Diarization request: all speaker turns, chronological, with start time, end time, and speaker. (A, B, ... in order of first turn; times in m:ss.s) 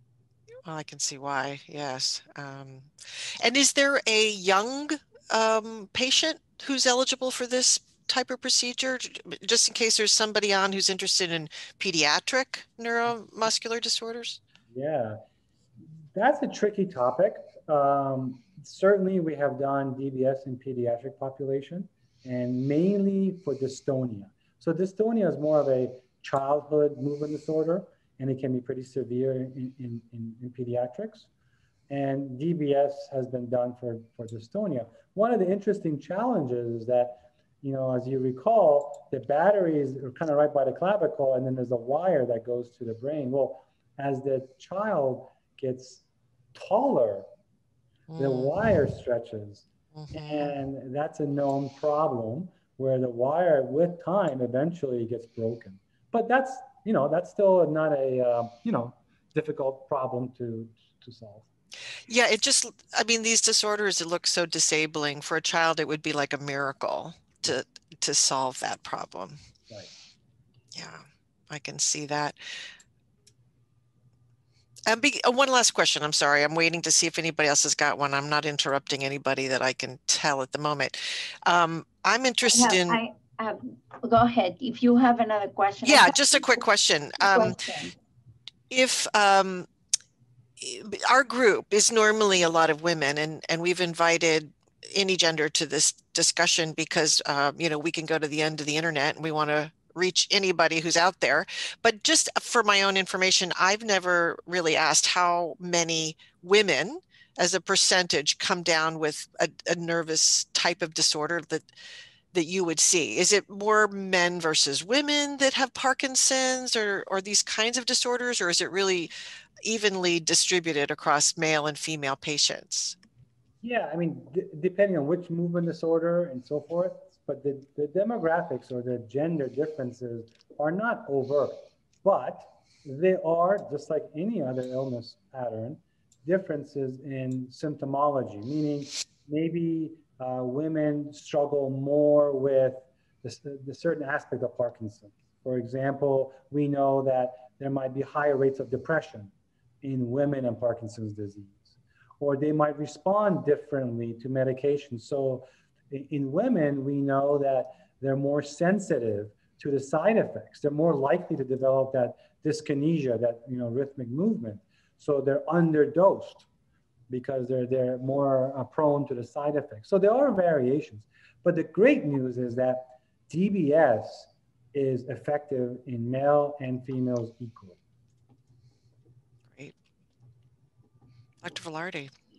0:00.6-0:14.4 A
0:14.7-0:15.2 B
0:16.1-0:31.3 B
0:31.9-0:47.3 B
0:48.1-0:48.5 A
0:48.2-1:01.5 B
0:50.0-0:50.5 A
1:02.1-1:09.4 A
1:10.7-1:12.4 A
1:14.9-1:23.0 A
1:22.4-1:26.6 C
1:25.8-1:27.6 A
1:27.2-1:27.9 C
1:28.7-1:29.7 A
1:30.6-1:51.7 A
1:52.3-1:59.1 A
1:59.6-2:03.0 A
2:03.6-2:46.4 B
2:47.1-2:57.8 B
3:01.4-3:02.1 A